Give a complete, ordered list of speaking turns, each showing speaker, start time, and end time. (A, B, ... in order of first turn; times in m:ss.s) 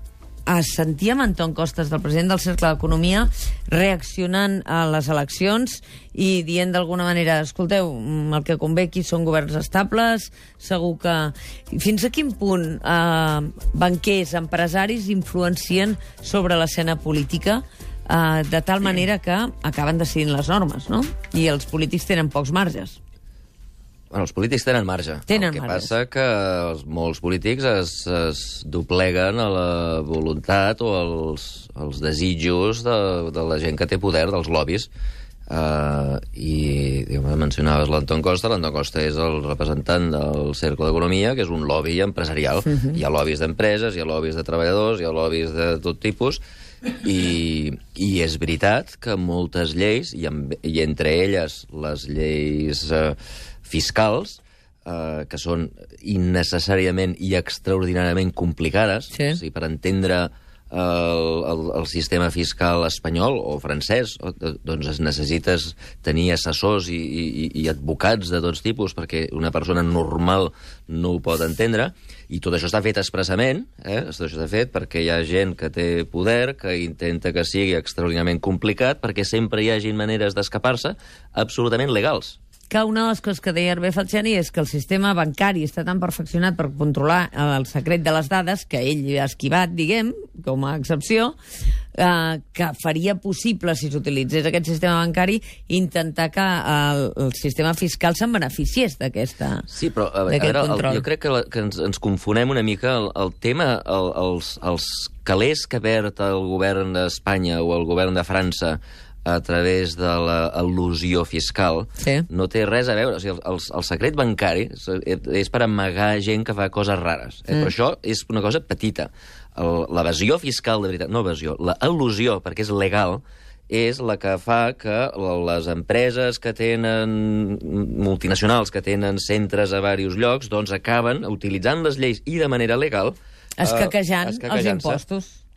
0:00.5-0:23.0 A
0:24.1-0:34.9 B
0:25.3-0:25.9 A
0:35.5-0:46.4 B
0:42.7-0:43.0 A
0:47.0-1:22.4 B
0:59.1-0:59.4 A
1:22.7-1:31.3 A
1:32.0-1:39.7 A
1:39.7-2:15.0 B
1:40.3-1:41.0 A
1:52.0-1:52.2 A
2:13.6-2:15.4 A